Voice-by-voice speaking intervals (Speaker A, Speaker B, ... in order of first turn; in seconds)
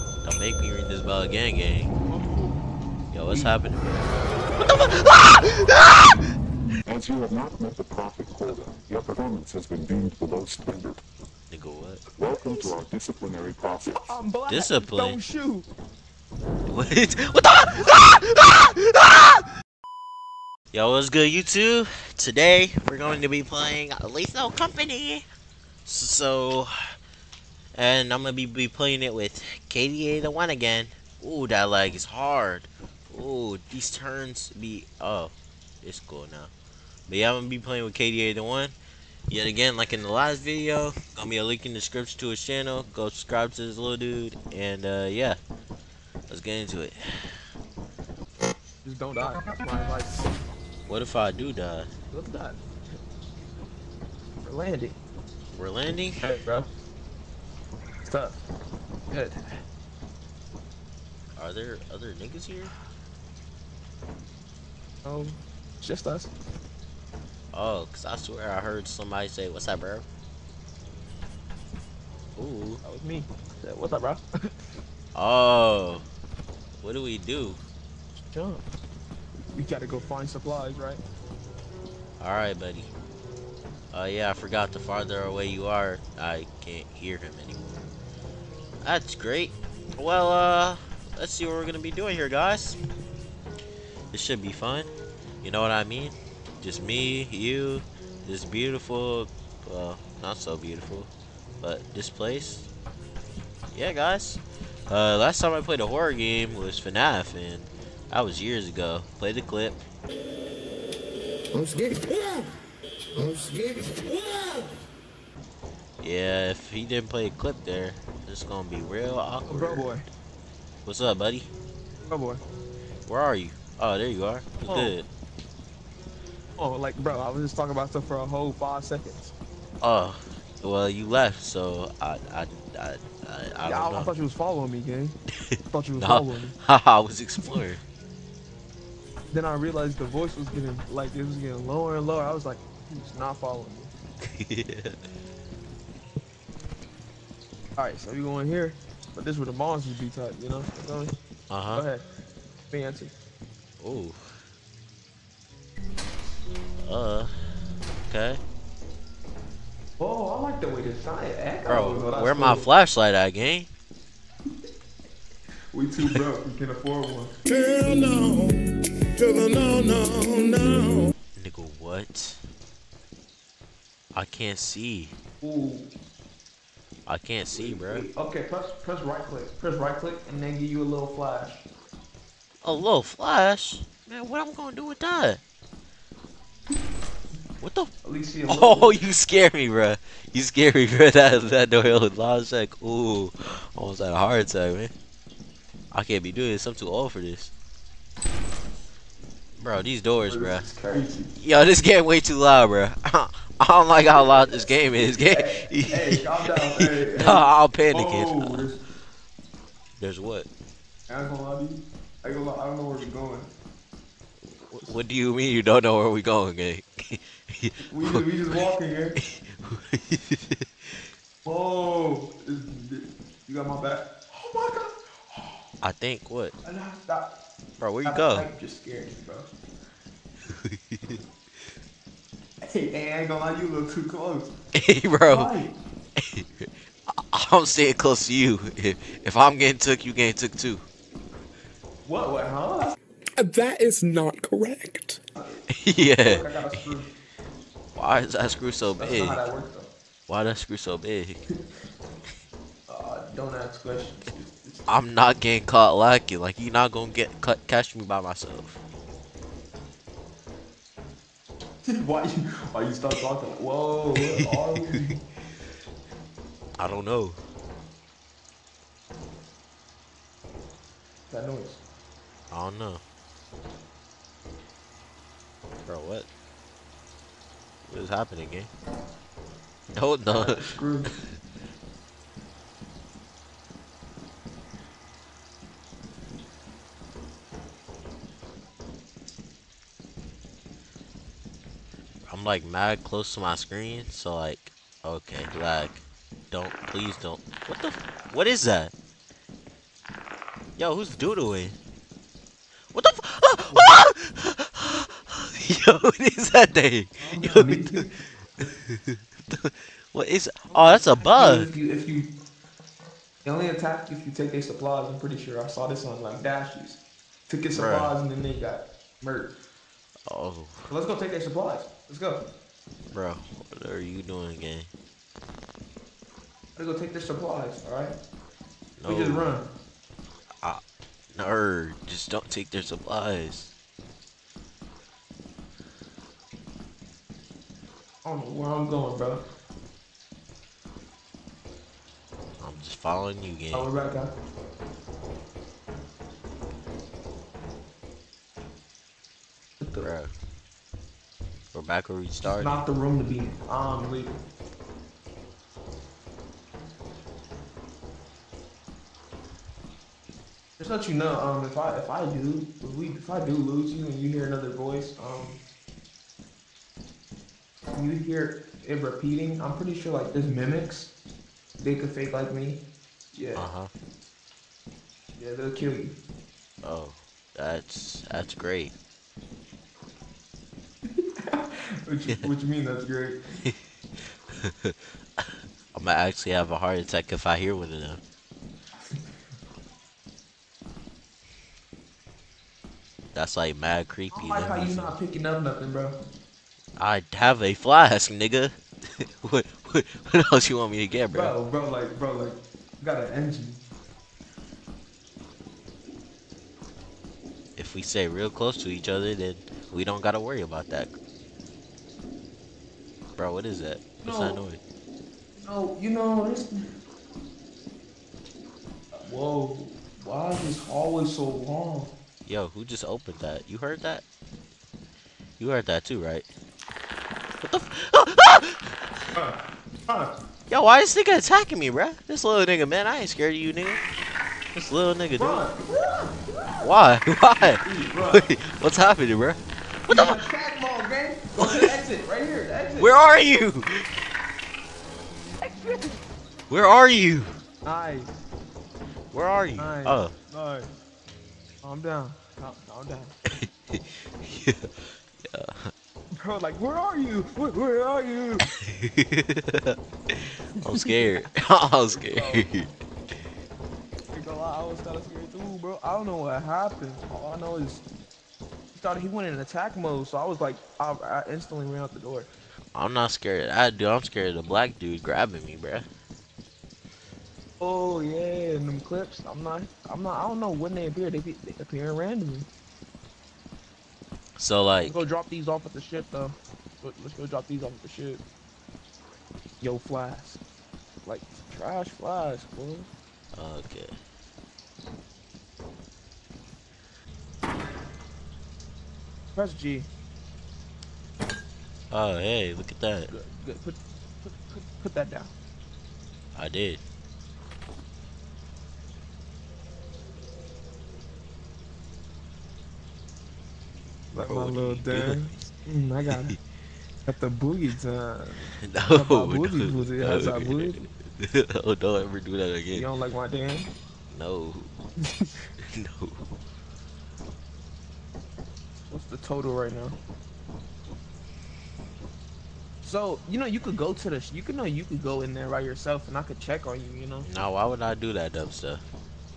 Speaker A: 0.2-1.9, 3.1-4.0, 4.6-6.2, 11.5-12.0, 14.5-15.2, 16.7-19.5, 20.7-25.2, 25.9-26.7, 27.8-36.5, 37.1-38.7, 39.3-45.4, 46.3-47.4, 50.9-51.9, 55.5-56.2, 61.4-62.7, 67.5-70.0, 72.3-72.8, 75.1-76.0, 76.8-77.6, 82.2-82.9, 83.9-87.8, 88.8-92.8, 94.1-94.9, 95.4-102.7, 103.7-109.8, 116.0-119.9, 120.8-121.5, 123.0-125.1, 129.8-134.1, 135.5-137.8, 144.2-145.0, 151.5-151.8, 153.8-154.3, 156.8-157.3, 158.1-158.4, 161.7-163.7, 171.3-172.4, 174.1-175.2, 177.1-178.1, 182.6-185.4, 187.6-187.9, 188.5-194.9, 195.9-197.5, 199.6-200.7, 201.3-208.7, 210.0-210.5, 214.5-218.2, 219.2-221.1, 225.8-226.5, 227.8-228.5, 230.4-231.2, 234.7-235.5, 236.2-240.8, 245.7-246.9, 247.9-249.4, 250.3-251.4, 254.9-258.8, 264.3-265.1, 266.8-267.4, 272.5-273.0, 275.9-276.3, 277.9-278.7, 279.9-280.6, 292.3-298.9, 300.8-301.8, 302.9-308.1, 308.6-311.7, 317.7-318.1, 320.3-320.9, 323.1-324.9, 329.0-329.5, 331.3-333.7, 342.6-343.9, 350.0-350.3, 351.7-352.8, 373.6-373.9, 376.8-378.9, 383.6-388.2, 393.3-395.1, 397.0-401.5, 407.8-411.1, 413.4-414.8, 422.4-424.2, 425.6-426.5, 427.6-429.1, 430.7-434.0, 434.7-435.6, 436.8-440.4, 441.6-441.9, 443.0-444.1, 446.7-447.5, 449.3-450.3, 453.5-455.9, 458.8-462.9, 472.9-476.1, 484.6-485.2, 493.5-494.1, 502.1-503.3, 506.5-507.0, 514.4-515.4, 518.8-523.0, 524.3-524.9, 525.8-526.4, 537.4-539.0
Speaker B: 2.1-2.5, 3.3-3.5, 12.3-12.8, 13.9-15.7, 48.8-50.3, 52.1-53.0, 54.4-55.0, 56.2-56.7, 58.0-58.4, 59.1-59.6, 65.0-66.3, 72.8-74.5, 78.2-78.6, 79.5-81.0, 119.5-120.0, 122.1-122.4, 124.6-124.9, 126.6-129.3, 133.6-135.2, 135.7-136.6, 139.3-143.9, 147.8-151.2, 151.7-152.0, 152.7-153.1, 160.0-162.7, 165.7-167.3, 175.4-175.9, 177.5-181.6, 188.0-189.0, 200.3-201.3, 204.0-208.8, 211.1-213.5, 217.8-219.2, 221.4-225.6, 226.6-227.3, 228.0-229.5, 232.6-234.5, 235.3-235.7, 242.0-242.9, 245.3-245.6, 246.2-247.1, 248.9-249.9, 252.9-254.8, 261.8-265.2, 271.3-271.8, 280.3-281.1, 303.7-303.9, 307.2-308.1, 310.7-312.3, 313.4-319.5, 320.9-322.4, 326.8-328.2, 329.1-329.7, 338.2-339.4, 343.7-344.3, 352.4-354.4, 360.8-365.6, 367.9-371.1, 371.8-372.8, 373.3-373.7, 375.4-376.1, 381.0-383.4, 389.0-389.3, 394.3-396.2, 401.3-403.8, 414.2-414.6, 415.6-416.8, 419.1-422.1, 429.3-430.3, 435.4-436.9, 437.6-438.5, 440.1-443.1, 445.6-446.2, 447.8-448.3, 449.8-450.9, 451.8-453.3, 456.4-458.6, 460.8-461.5, 462.1-462.9, 464.3-468.0, 468.9-472.5, 477.8-482.7, 485.0-488.4, 489.8-490.6, 491.2-493.1, 499.5-500.1, 503.3-505.5, 514.3-516.5, 517.2-521.0, 522.9-523.9, 525.2-525.7, 529.1-530.2, 533.0-537.5
Speaker C: 6.8-11.0, 12.2-14.2
Speaker D: 111.5-112.4, 113.2-114.7, 167.4-168.5, 169.2-171.1, 243.4-245.2